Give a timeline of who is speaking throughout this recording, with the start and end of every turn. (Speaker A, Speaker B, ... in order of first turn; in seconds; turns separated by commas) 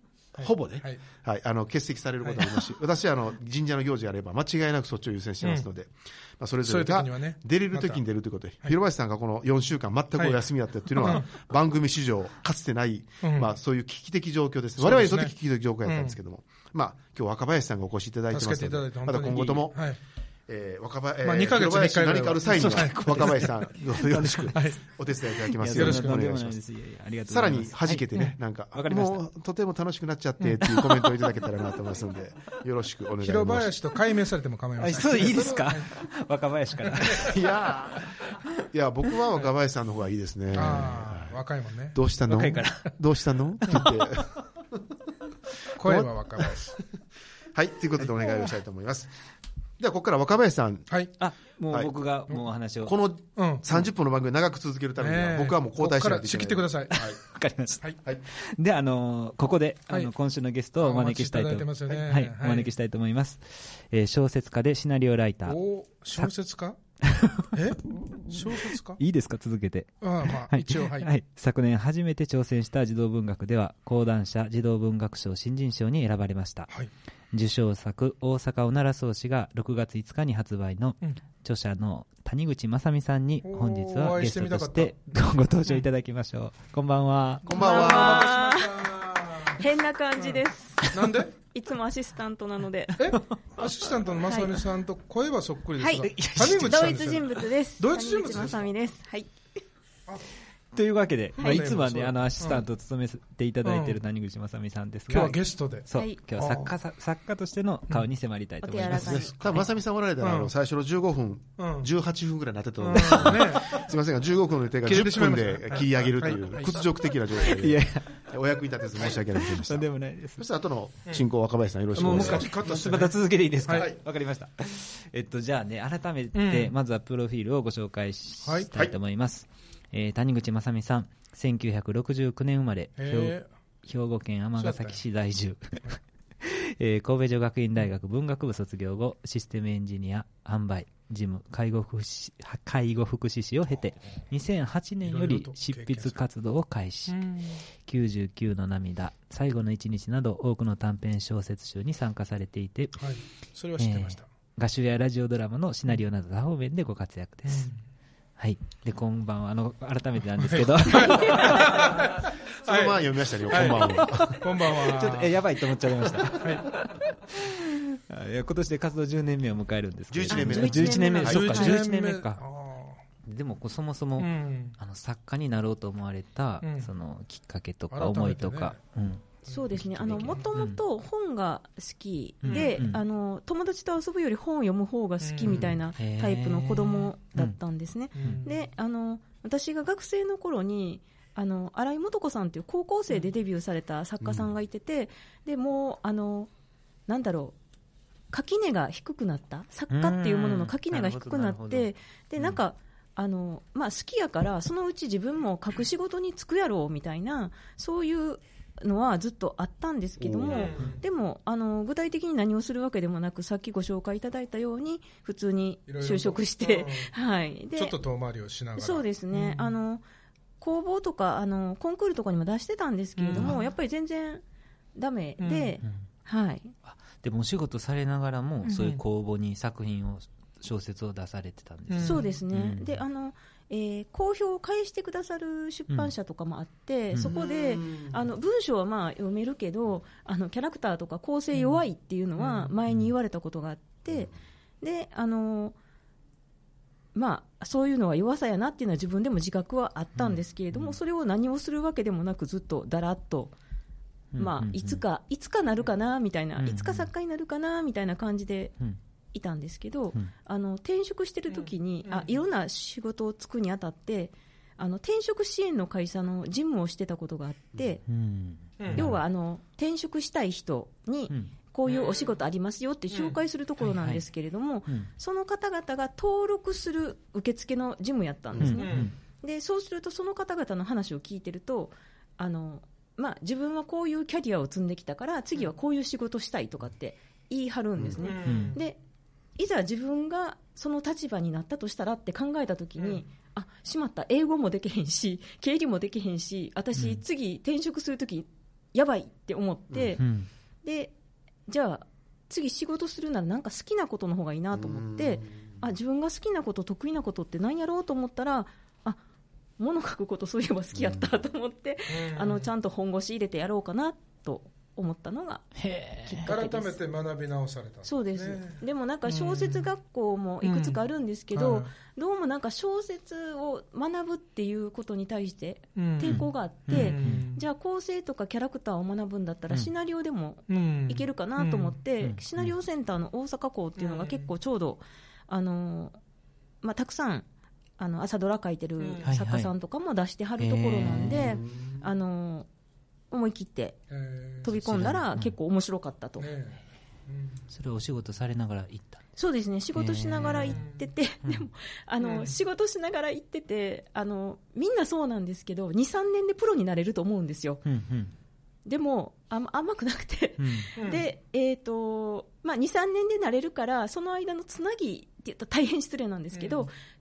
Speaker A: 0.4-19.9, Speaker B: 0.4-1.0, Speaker B: 2.2-2.5, Speaker B: 6.7-8.0, Speaker B: 10.2-10.4, Speaker B: 10.9-11.3, Speaker B: 13.2-13.5, Speaker B: 14.8-15.3, Speaker B: 15.8-16.1, Speaker B: 18.3-20.0, Speaker A: 20.5-26.6, Speaker B: 21.2-23.5, Speaker C: 22.5-24.7, Speaker B: 24.5-24.8, Speaker C: 25.6-29.2, Speaker B: 25.7-26.2, Speaker A: 27.3-33.7, Speaker C: 30.7-31.6, Speaker B: 33.2-35.9, Speaker C: 34.8-37.5, Speaker B: 36.9-37.3, Speaker A: 37.2-41.4, Speaker B: 40.5-42.0, Speaker C: 40.6-40.9, Speaker A: 41.9-44.4, Speaker C: 42.3-42.9, Speaker C: 43.7-44.0, Speaker B: 45.8-46.8, Speaker A: 45.8-46.1, Speaker A: 47.5-49.1, Speaker B: 48.0-48.5, Speaker A: 49.8-50.9, Speaker C: 51.2-53.0, Speaker A: 52.8-57.2, Speaker B: 53.4-53.7, Speaker B: 55.0-57.1, Speaker C: 57.0-65.6, Speaker B: 60.8-62.7, Speaker B: 65.5-66.8, Speaker C: 67.0-67.5, Speaker B: 67.5-69.0, Speaker C: 68.3-76.7, Speaker B: 70.0-71.1, Speaker C: 77.3-87.6, Speaker B: 83.4-84.9, Speaker A: 87.5-88.4, Speaker B: 87.5-89.6, Speaker D: 87.5-90.9, Speaker B: 90.2-91.3, Speaker D: 91.5-93.0, Speaker B: 93.0-98.7, Speaker C: 93.3-93.7, Speaker D: 94.3-94.5, Speaker D: 95.8-99.3, Speaker C: 96.0-97.4, Speaker C: 100.7-109.5, Speaker B: 101.4-102.6, Speaker D: 101.4-101.6, Speaker B: 103.7-104.0, Speaker B: 105.1-106.7, Speaker D: 106.0-106.2, Speaker D: 108.6-109.4, Speaker A: 108.9-122.5, Speaker B: 110.2-110.5, Speaker B: 111.6-111.9, Speaker B: 112.8-113.8, Speaker C: 113.0-113.5, Speaker B: 114.8-116.8, Speaker C: 117.4-118.2, Speaker C: 119.0-120.4, Speaker C: 122.0-153.2, Speaker B: 122.0-123.9, Speaker A: 123.7-124.0, Speaker B: 126.3-126.7, Speaker B: 128.4-128.7, Speaker B: 133.0-133.5, Speaker B: 134.6-135.0, Speaker B: 145.0-146.2, Speaker B: 147.1-147.6, Speaker B: 153.0-154.3, Speaker C: 153.8-157.7, Speaker B: 157.5-157.8, Speaker C: 158.4-162.1, Speaker B: 160.4-165.4, Speaker A: 162.6-164.5, Speaker C: 163.7-172.4, Speaker B: 166.4-166.7, Speaker A: 170.1-171.5, Speaker D: 170.3-171.8, Speaker B: 171.2-173.0, Speaker C: 173.2-180.8, Speaker B: 174.2-174.8, Speaker B: 176.6-176.9, Speaker B: 177.9-178.8, Speaker D: 179.5-196.5, Speaker B: 179.5-180.5, Speaker C: 182.4-183.0, Speaker B: 182.4-182.8, Speaker B: 185.2-185.7, Speaker A: 185.4-185.8, Speaker C: 186.0-187.6, Speaker B: 188.1-188.6, Speaker A: 194.2-194.5, Speaker D: 197.1-197.6, Speaker D: 198.3-218.0, Speaker C: 199.9-202.6, Speaker A: 210.2-210.9, Speaker B: 210.5-211.0, Speaker B: 215.9-217.1, Speaker B: 217.8-219.8, Speaker D: 218.8-220.0, Speaker D: 220.6-224.4, Speaker B: 223.2-223.7, Speaker D: 224.9-226.7, Speaker B: 225.4-225.8, Speaker C: 226.8-233.0, Speaker D: 228.6-228.9, Speaker B: 231.9-232.2, Speaker D: 232.0-245.8, Speaker A: 237.2-238.3, Speaker B: 241.5-241.8, Speaker B: 242.4-242.7, Speaker D: 247.2-253.5, Speaker C: 250.2-251.0, Speaker C: 254.3-255.0, Speaker D: 254.4-258.7, Speaker C: 256.6-257.1, Speaker D: 259.3-268.0, Speaker B: 261.5-262.4, Speaker C: 268.1-269.2, Speaker B: 268.8-269.1, Speaker D: 268.9-289.0, Speaker B: 271.9-272.3, Speaker B: 273.1-273.4, Speaker C: 273.8-274.2, Speaker C: 278.6-279.1, Speaker B: 278.8-279.1, Speaker B: 288.2-288.8, Speaker C: 288.4-288.8, Speaker D: 289.6-300.2, Speaker B: 293.0-293.2, Speaker C: 297.0-297.2, Speaker A: 299.9-300.2, Speaker C: 300.2-300.5, Speaker D: 300.8-301.1, Speaker D: 301.7-309.2, Speaker A: 304.7-305.9, Speaker D: 309.8-317.0, Speaker A: 310.9-311.4, Speaker B: 312.1-312.7, Speaker C: 315.8-316.4, Speaker B: 316.4-319.9, Speaker D: 318.0-336.2, Speaker B: 320.6-321.0, Speaker B: 321.5-321.9, Speaker B: 326.0-327.6, Speaker C: 326.2-327.5, Speaker B: 330.7-331.9, Speaker C: 332.2-332.7, Speaker B: 334.0-334.5, Speaker D: 336.8-337.5, Speaker D: 338.0-342.7, Speaker B: 339.0-339.3, Speaker C: 339.2-339.7, Speaker C: 340.6-341.6, Speaker A: 341.2-342.1, Speaker D: 343.3-344.0, Speaker B: 344.1-344.8, Speaker D: 344.6-346.5, Speaker C: 344.7-345.6, Speaker B: 346.4-347.6, Speaker C: 347.7-349.3, Speaker D: 349.4-357.8, Speaker C: 350.0-350.8, Speaker B: 350.6-351.1, Speaker B: 352.2-352.6, Speaker C: 357.9-358.3, Speaker D: 358.9-366.9, Speaker C: 360.6-360.9, Speaker B: 361.0-361.3, Speaker B: 366.5-366.9